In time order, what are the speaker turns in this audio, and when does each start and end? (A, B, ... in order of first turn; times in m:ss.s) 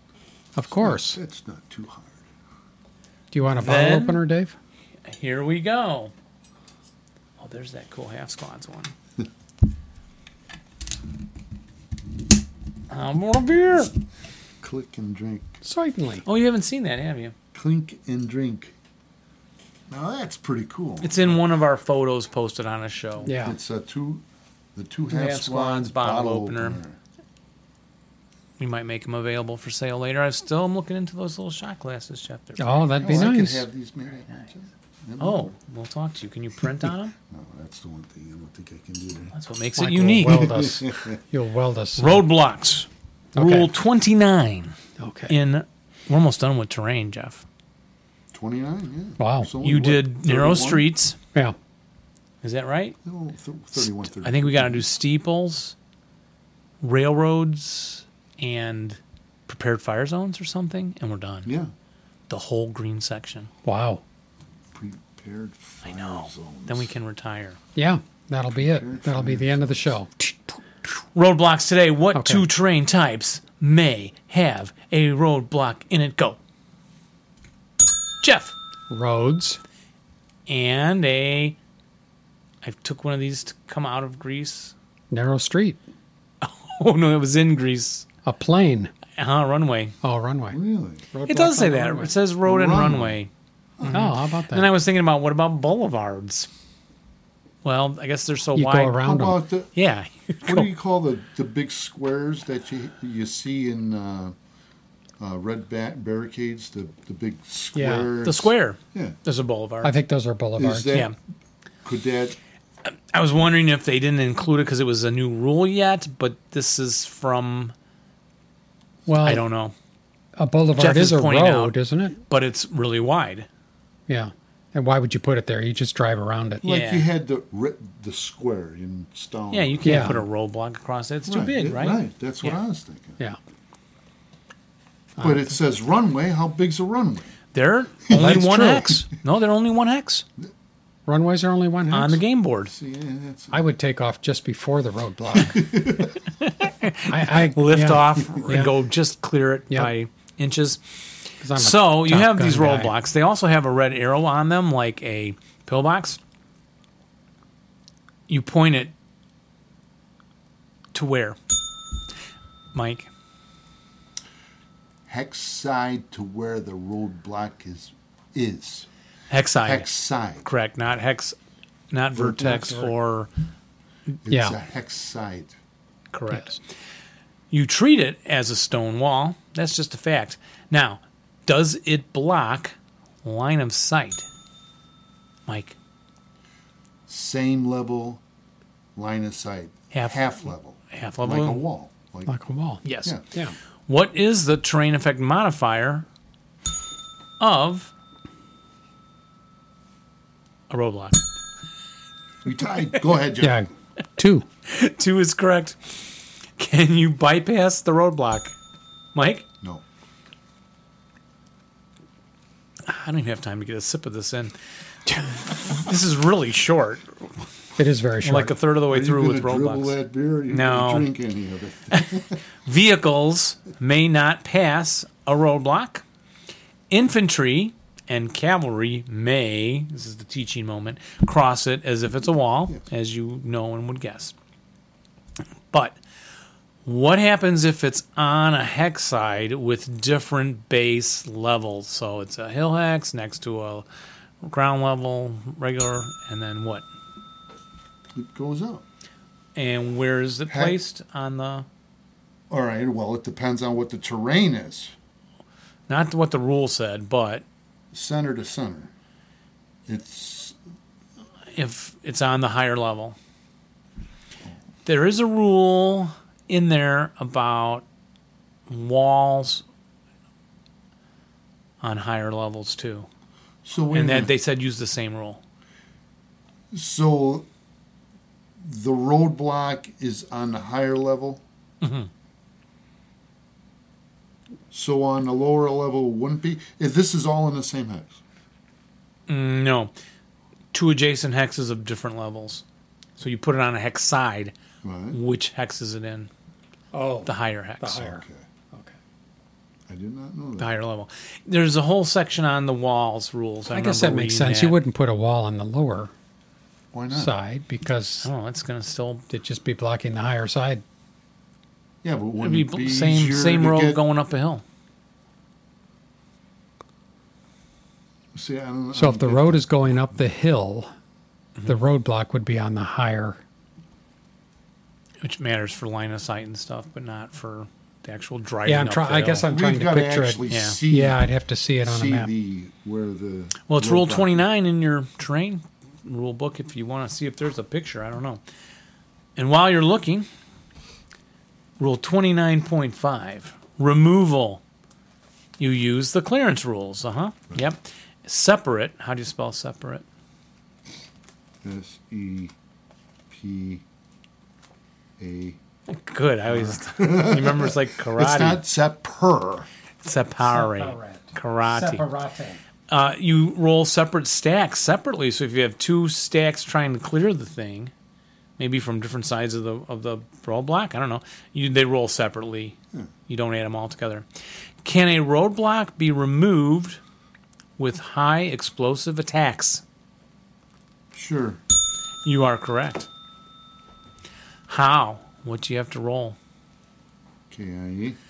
0:00.6-0:01.2 A
0:00.7-0:02.3 B
0:03.3-0:04.6 A
0:03.6-0:04.2 C
0:05.1-0:06.1 C
0:07.4-0:08.9 C
0:12.9-0:13.9 C
0:14.6-0:15.6 B
0:15.6-0:16.2 A
0:16.2-0:17.3 C
0:17.5-0:18.7 B
0:19.9-0:21.4 B
0:21.0-0:23.3 C
0:23.2-0:23.6 A
0:23.3-0:24.2 B
0:24.8-0:27.0 B
0:25.1-0:26.8 C
0:28.6-0:33.3 C
0:32.6-0:33.7 A
0:33.0-0:35.6 B
0:35.2-0:37.2 C
0:37.3-0:39.3 B
0:39.3-0:40.8 C
0:39.8-0:42.3 A
0:40.2-0:41.2 B
0:42.0-0:44.8 C
0:43.3-0:43.7 A
0:45.0-0:45.4 A
0:45.3-0:47.4 C
0:48.3-0:50.9 B
0:49.2-0:49.5 A
0:49.6-0:51.2 C
0:52.4-0:53.0 C
0:53.0-0:54.9 B
0:53.8-0:55.8 C
0:56.8-1:01.5 C
1:01.5-1:01.7 B
1:02.3-1:03.5 C
1:03.6-1:04.0 A
1:04.7-1:06.9 B
1:05.8-1:07.6 C
1:07.8-1:10.6 A
1:08.6-1:10.0 B
1:11.2-1:16.4 C
1:12.1-1:12.5 A
1:18.2-1:18.6 C
1:18.9-1:19.6 A
1:20.5-1:21.6 C
1:22.6-1:24.7 C
1:25.1-1:25.8 A
1:26.4-1:28.1 C
1:28.2-1:28.9 A
1:29.2-1:30.0 C
1:30.0-1:30.6 A
1:30.5-1:31.0 B
1:31.1-1:32.2 A
1:31.3-1:33.3 C
1:32.4-1:33.2 B
1:33.8-1:34.1 B
1:33.8-1:36.5 C
1:33.9-1:34.7 A
1:37.6-1:39.0 C
1:38.6-1:39.4 A
1:39.0-1:39.7 B
1:39.8-1:40.7 C
1:40.5-1:44.3 B
1:45.2-1:49.2 B
1:47.7-1:48.1 A
1:48.2-1:49.9 C
1:49.8-1:51.0 A
1:50.6-1:51.1 B
1:51.8-1:52.4 B
1:52.8-1:57.7 C
1:59.1-1:59.5 A
1:59.2-1:59.7 C
2:00.4-2:02.2 A
2:00.8-2:01.8 C
2:02.3-2:03.5 C
2:04.1-2:06.7 A
2:06.6-2:10.3 B
2:06.6-2:07.1 C
2:09.5-2:12.6 C
2:09.8-2:10.2 A
2:11.3-2:13.2 B
2:15.2-2:17.3 B
2:17.5-2:20.2 C
2:18.1-2:18.6 B
2:18.2-2:18.9 A
2:21.1-2:22.2 A
2:21.9-2:22.7 C
2:22.7-2:23.7 B
2:23.5-2:25.7 A
2:25.3-2:26.2 B
2:26.4-2:30.8 C
2:27.1-2:28.7 A
2:31.4-2:32.9 A
2:31.6-2:36.2 C
2:38.3-2:38.9 C
2:40.9-2:41.4 C
2:42.7-2:43.1 C
2:45.1-2:48.9 B
2:49.3-2:49.9 C
2:49.6-2:50.4 B
2:50.4-2:51.4 C
2:51.9-2:53.3 C
2:52.1-2:52.8 B
2:52.4-2:52.9 A
2:54.2-2:55.5 B
2:54.3-2:54.6 A
2:56.1-2:56.6 C
2:56.3-2:56.6 A
2:57.5-3:04.3 C
3:05.5-3:05.8 C
3:07.1-3:08.2 B
3:09.0-3:12.4 B
3:09.9-3:11.6 C
3:12.3-3:13.6 A
3:12.8-3:13.1 C
3:13.9-3:16.1 C
3:17.4-3:17.9 C
3:20.7-3:21.2 C
3:22.4-3:23.6 B
3:23.4-3:24.4 A
3:24.7-3:28.5 C
3:29.2-3:29.5 C
3:32.9-3:34.5 C
3:35.2-3:37.1 C
3:37.8-3:38.6 A
3:38.2-3:39.9 C
3:38.9-3:42.4 B
3:40.5-3:41.1 C
3:41.9-3:46.0 C
3:46.9-3:54.3 C
3:55.7-3:56.0 C
3:56.8-4:03.9 C
4:04.4-4:06.9 C
4:08.2-4:08.8 B
4:09.6-4:11.7 C
4:10.5-4:10.8 B
4:12.5-4:14.9 B
4:15.9-4:17.4 C
4:17.9-4:18.9 B
4:19.9-4:20.6 B
4:21.5-4:23.2 C
4:24.8-4:27.8 C
4:28.7-4:29.6 C
4:31.8-4:33.1 C
4:33.6-4:34.3 B
4:33.9-4:35.4 C
4:36.7-4:37.5 B
4:38.6-4:41.4 B
4:41.8-4:42.1 C
4:44.7-4:48.2 B
4:49.3-4:49.9 C
4:50.7-4:52.6 C
4:53.2-4:54.5 C
4:54.8-4:55.2 B
4:55.1-4:56.3 C
4:56.9-4:59.0 A
4:57.2-4:58.1 C
4:58.0-4:58.4 B
4:59.9-5:00.7 B
5:00.6-5:04.8 C
5:03.7-5:06.1 A
5:06.9-5:07.4 B
5:07.1-5:08.3 A
5:08.2-5:09.3 C
5:09.3-5:10.8 A
5:12.0-5:14.0 B
5:12.4-5:14.6 C
5:18.3-5:19.9 B
5:19.0-5:20.9 A
5:21.7-5:23.4 A
5:25.2-5:29.5 C
5:28.6-5:32.3 A
5:29.5-5:31.3 B
5:30.5-5:30.8 C
5:31.8-5:34.4 B
5:33.7-5:38.4 C
5:39.4-5:40.3 C
5:41.8-5:44.6 C
5:45.6-5:50.0 C
5:51.6-5:52.5 B
5:53.3-5:53.8 B
5:55.2-5:55.6 B
5:55.9-5:58.6 C
5:56.5-5:59.7 B
6:00.0-6:02.0 C
6:00.4-6:02.6 A
6:02.9-6:07.9 C
6:08.6-6:12.8 C
6:13.3-6:14.3 C
6:14.8-6:17.0 C
6:17.8-6:19.8 C
6:21.1-6:21.6 B
6:22.2-6:23.1 C
6:24.7-6:26.4 C
6:27.5-6:28.2 B